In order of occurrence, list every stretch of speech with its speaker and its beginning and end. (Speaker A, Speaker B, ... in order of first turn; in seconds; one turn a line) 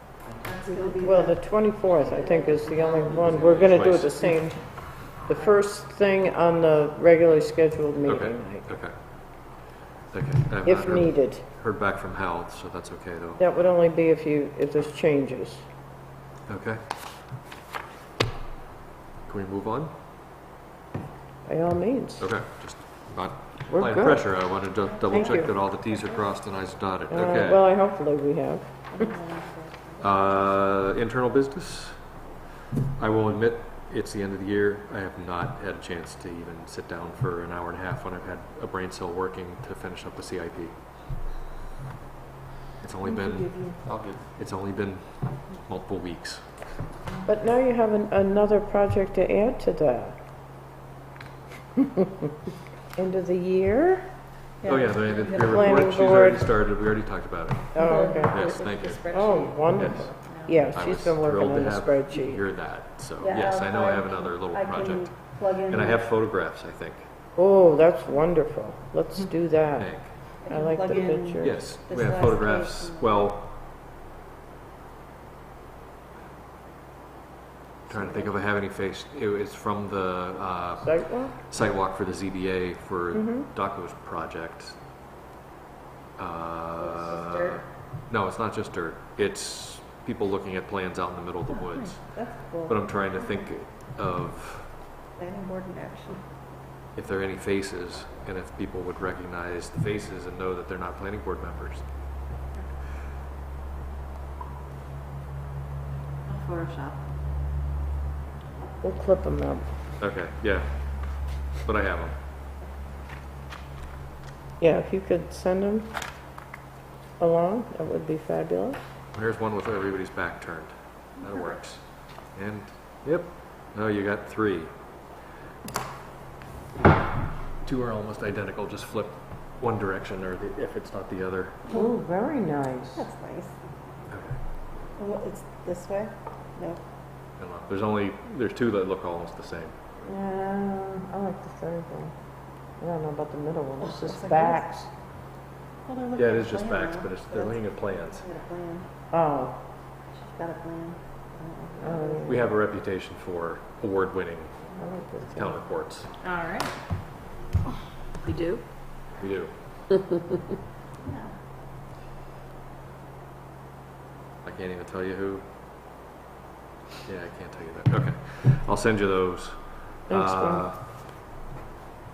Speaker A: 0.3-1.1
Speaker B: 0.6-1.4
Speaker C: 1.0-8.7
Speaker B: 2.0-3.4
Speaker A: 2.7-3.6
Speaker D: 3.6-4.2
Speaker D: 8.1-8.9
Speaker D: 10.1-13.4
Speaker C: 10.6-11.4
Speaker C: 13.4-15.7
Speaker D: 16.5-16.8
Speaker D: 19.3-19.9
Speaker C: 21.4-22.2
Speaker D: 22.2-27.7
Speaker C: 23.7-24.5
Speaker B: 25.1-26.2
Speaker C: 25.1-25.5
Speaker C: 27.1-29.1
Speaker B: 28.9-30.1
Speaker D: 30.0-32.0
Speaker D: 33.0-40.8
Speaker D: 42.8-46.6
Speaker B: 43.1-43.8
Speaker C: 47.2-50.2
Speaker C: 53.0-54.1
Speaker B: 54.6-56.0
Speaker D: 54.6-59.0
Speaker C: 55.3-56.5
Speaker C: 57.7-58.5
Speaker B: 57.7-60.6
Speaker C: 59.0-62.4
Speaker D: 59.8-60.1
Speaker D: 60.7-67.1
Speaker B: 63.2-66.1
Speaker C: 67.4-71.6
Speaker D: 69.8-70.1
Speaker B: 70.4-73.3
Speaker D: 71.4-73.5
Speaker D: 77.9-84.8
Speaker C: 80.8-81.4
Speaker C: 83.2-83.5
Speaker D: 86.2-94.7
Speaker B: 86.8-87.6
Speaker B: 91.5-93.4
Speaker B: 95.2-96.2
Speaker D: 97.0-101.9
Speaker B: 106.3-107.0
Speaker C: 108.8-109.7
Speaker D: 110.0-112.2
Speaker C: 114.6-115.9
Speaker C: 117.2-118.8
Speaker D: 119.1-124.7
Speaker D: 127.6-131.6
Speaker B: 131.7-131.9
Speaker C: 131.7-133.1
Speaker B: 133.0-133.6
Speaker D: 134.1-134.4
Speaker B: 135.0-136.8
Speaker D: 137.4-139.8
Speaker C: 140.1-142.1
Speaker C: 142.8-144.9
Speaker B: 143.8-144.7
Speaker B: 145.9-148.9
Speaker D: 146.2-148.3
Speaker C: 149.1-149.6
Speaker B: 150.1-152.3
Speaker C: 151.8-152.6
Speaker D: 152.3-154.6
Speaker C: 154.8-155.6
Speaker D: 155.3-156.1
Speaker A: 158.2-158.6
Speaker D: 159.2-159.5
Speaker B: 161.0-161.3
Speaker D: 164.4-165.5
Speaker D: 167.1-170.8
Speaker C: 170.1-170.7